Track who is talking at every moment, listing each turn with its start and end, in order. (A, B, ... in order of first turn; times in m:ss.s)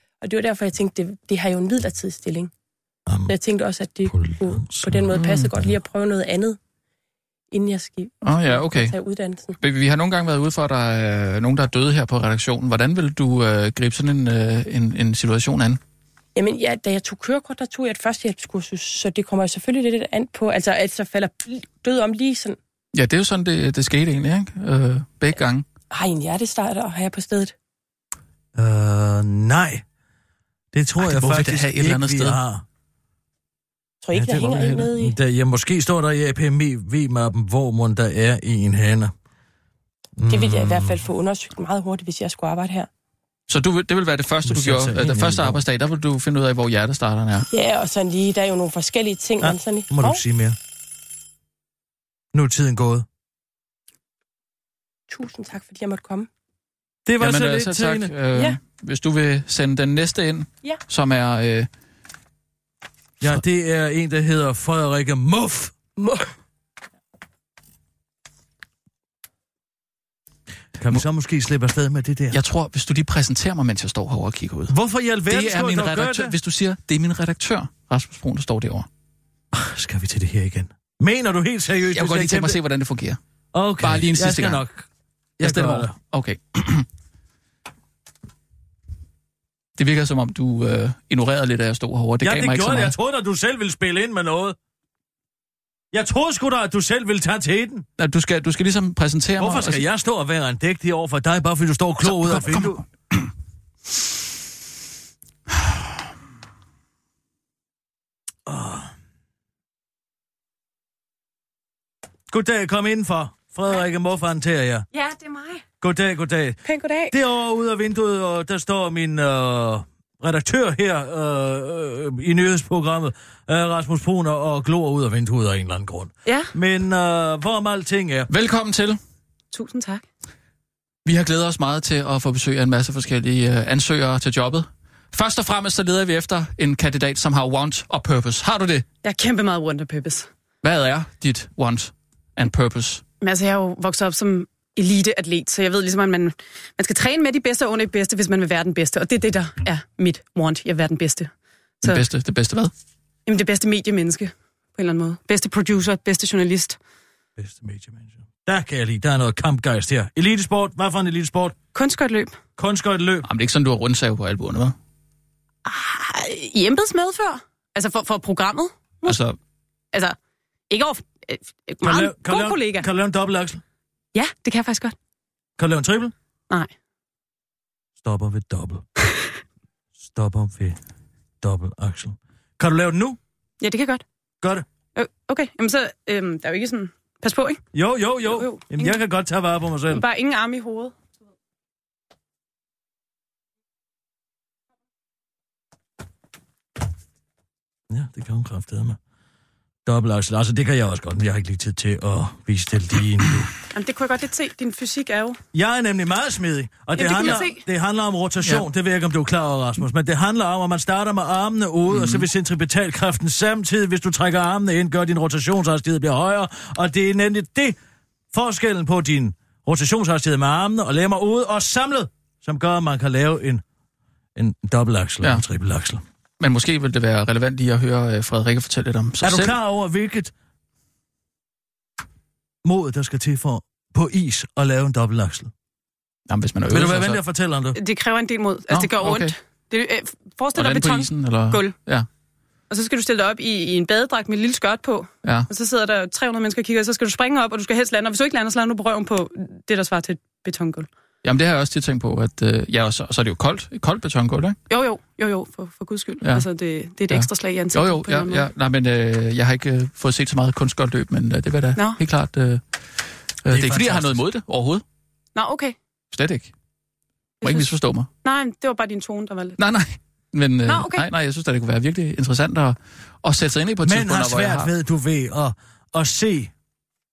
0:00.2-0:02.5 A
0:03.1-0:03.3 B
0:03.3-0:06.6 A
0:04.1-0:05.7 B
0:05.1-0:05.5 C
0:07.5-0:09.6 A
0:08.2-0:09.0 C
0:09.6-0:15.8 C
0:16.4-0:22.6 A
0:22.9-0:25.7 C
0:25.9-0:27.5 A
0:28.6-0:29.8 B
0:30.7-0:32.6 B
0:31.0-0:32.4 C
0:34.0-0:35.2 A
0:34.1-0:39.1 B
0:40.2-0:41.1 B
0:40.3-0:42.9 A
0:43.5-0:47.5 C
0:44.4-0:45.6 B
0:47.5-0:50.2 A
0:49.4-0:50.6 B
0:52.3-0:53.1 B
0:55.1-0:56.3 A
0:57.1-0:58.1 B
0:57.2-1:01.7 C
0:58.3-0:58.6 A
1:03.2-1:05.7 B
1:06.0-1:06.3 A
1:10.8-1:12.4 B
1:12.3-1:14.8 C
1:14.7-1:16.4 B
1:15.3-1:18.9 C
1:19.5-1:22.6 B
1:21.9-1:23.2 C
1:23.5-1:24.8 B
1:23.8-1:24.6 C
1:25.4-1:26.0 B
1:25.4-1:26.9 C
1:29.8-1:33.0 C
1:32.2-1:34.6 B
1:35.9-1:37.9 B
1:38.0-1:39.8 C
1:39.4-1:42.8 B
1:42.1-1:42.8 C
1:48.5-1:48.9 B
1:52.3-1:54.9 B
1:54.9-1:55.6 D
1:55.8-2:08.3 B
1:56.7-1:57.1 A
2:06.3-2:06.5 D
2:08.3-2:09.0 C
2:09.5-2:10.0 D
2:11.0-2:18.8 C
2:19.0-2:20.3 D
2:20.6-2:23.0 C
2:23.2-2:31.3 D
2:31.8-2:32.7 C
2:33.3-2:36.8 D
2:37.4-2:41.6 B
2:41.8-2:42.4 D
2:42.6-2:43.3 B
2:43.2-2:44.8 C
2:45.6-2:49.2 D
2:49.0-2:49.4 C
2:50.7-2:52.9 D
2:51.8-2:53.6 B
2:54.1-2:55.0 D
2:55.6-2:56.1 B
2:58.0-2:58.8 B
3:00.0-3:00.8 B
3:01.4-3:03.2 B
3:03.6-3:04.0 D
3:05.0-3:07.6 D
3:07.7-3:10.0 B
3:08.3-3:09.0 D
3:09.9-3:11.0 D
3:17.9-3:19.0 B
3:19.9-3:23.5 B
3:23.7-3:25.4 D
3:25.5-3:37.8 B
3:27.0-3:27.6 D
3:27.1-3:27.4 C
3:31.9-3:32.3 C
3:38.3-3:43.6 B
3:44.4-3:46.0 B
3:46.4-3:49.6 C
3:49.2-3:50.3 B
3:52.6-3:55.5 B
3:56.3-3:57.2 C
3:56.7-3:57.8 B
3:57.7-4:01.8 D
3:58.7-3:59.4 C
4:00.5-4:02.1 C
4:02.7-4:10.9 D
4:05.2-4:05.5 C
4:11.2-4:14.6 C
4:14.7-4:18.5 D
4:17.1-4:22.6 C
4:21.8-4:22.0 D
4:23.4-4:24.8 C
4:23.5-4:24.2 B
4:25.4-4:25.8 D
4:26.1-4:26.5 C
4:27.4-4:27.7 D
4:27.4-4:28.1 C
4:28.2-4:29.6 D
4:29.6-4:34.7 C
4:30.7-4:31.1 D
4:33.8-4:36.5 B